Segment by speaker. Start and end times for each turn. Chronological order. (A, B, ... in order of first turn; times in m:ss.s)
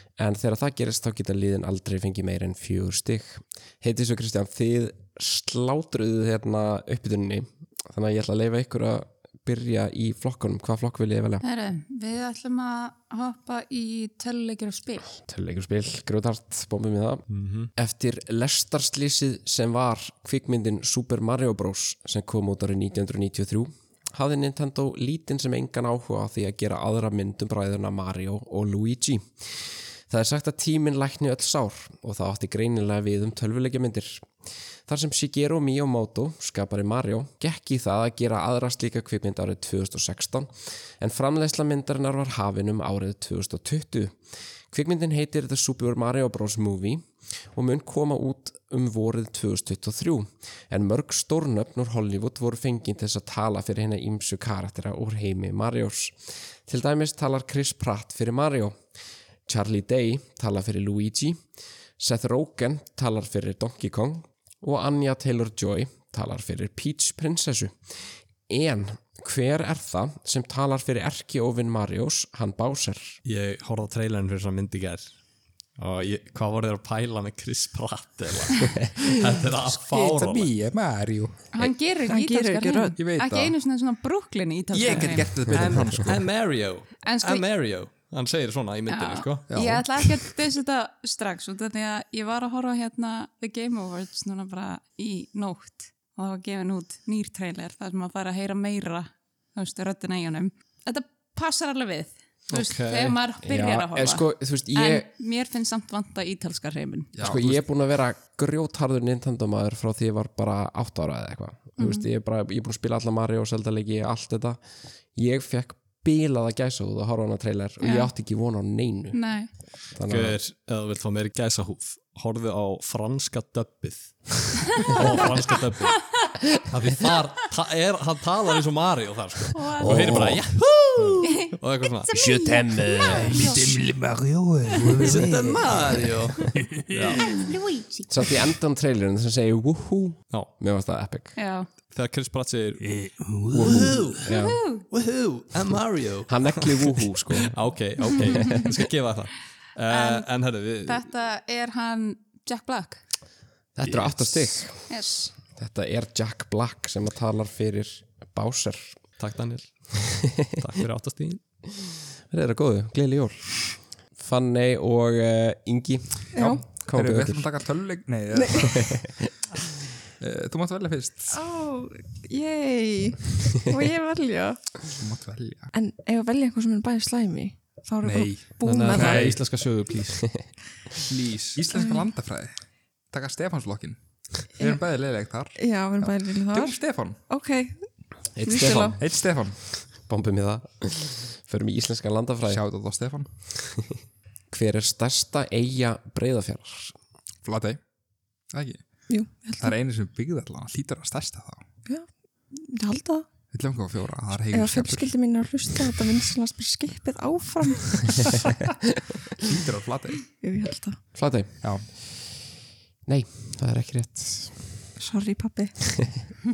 0:00.2-0:11.4 A
0:11.4-0:15.1 B
0:15.2-0:44.2 A
0:17.3-0:17.7 C
0:44.7-0:58.8 A
0:59.4-1:01.4 A
1:02.0-1:13.2 A
1:13.2-1:15.1 C
1:15.8-1:20.5 C
1:19.9-1:21.5 D
1:21.5-1:25.3 B
1:22.1-1:23.0 E
1:23.0-1:23.5 D
1:24.7-1:26.2 D
1:25.5-1:29.4 C
1:27.0-1:27.4 B
1:28.9-1:47.1 B
1:29.5-1:29.9 D
1:42.5-1:43.2 C
1:43.4-1:45.1 A
1:47.1-1:47.6 D
1:47.2-1:54.6 A
1:51.8-1:52.0 B
1:55.1-2:00.4 A
1:57.8-1:58.1 B
1:59.1-1:59.5 B
2:00.0-2:12.1 C
2:09.5-2:10.2 B
2:09.8-2:10.5 A
2:11.2-2:11.5 B
2:12.1-2:13.7 B
2:12.1-2:13.6 A
2:13.0-2:15.8 D
2:14.9-2:17.4 C
2:16.4-2:17.4 D
2:17.3-2:18.2 B
2:18.1-2:21.4 A
2:21.4-2:21.7 B
2:21.9-2:31.0 C
2:22.8-2:24.2 D
2:23.5-2:24.6 A
2:24.3-2:24.9 B
2:26.3-2:27.6 A
2:28.2-2:28.6 A
2:29.9-2:30.3 B
2:30.8-2:33.0 B
2:33.7-2:39.1 A
2:33.8-2:34.5 C
2:34.9-2:35.3 B
2:39.2-2:41.4 C
2:42.2-2:47.5 A
2:46.3-2:46.6 E
2:46.4-2:49.1 D
2:48.3-2:48.8 E
2:48.9-2:49.2 A
2:50.2-2:51.4 D
2:51.3-2:54.9 E
2:54.9-2:55.7 D
2:55.7-2:59.4 E
2:58.0-2:59.4 D
2:58.6-3:00.5 C
2:58.6-2:59.2 A
3:01.0-3:02.5 D
3:01.7-3:02.1 E
3:03.1-3:07.2 D
3:04.6-3:04.8 E
3:05.6-3:09.0 E
3:08.4-3:09.1 A
3:09.0-3:09.6 D
3:09.7-3:12.6 A
3:12.4-3:13.3 D
3:14.5-3:16.9 A
3:17.4-3:17.8 D
3:18.5-3:21.6 D
3:19.1-3:19.7 E
3:21.9-3:23.2 E
3:23.5-3:25.2 D
3:24.5-3:28.3 E
3:29.4-3:30.3 D
3:30.3-3:31.1 E
3:31.1-3:32.2 A
3:31.6-3:31.9 D
3:33.0-3:34.8 A
3:35.0-3:35.8 E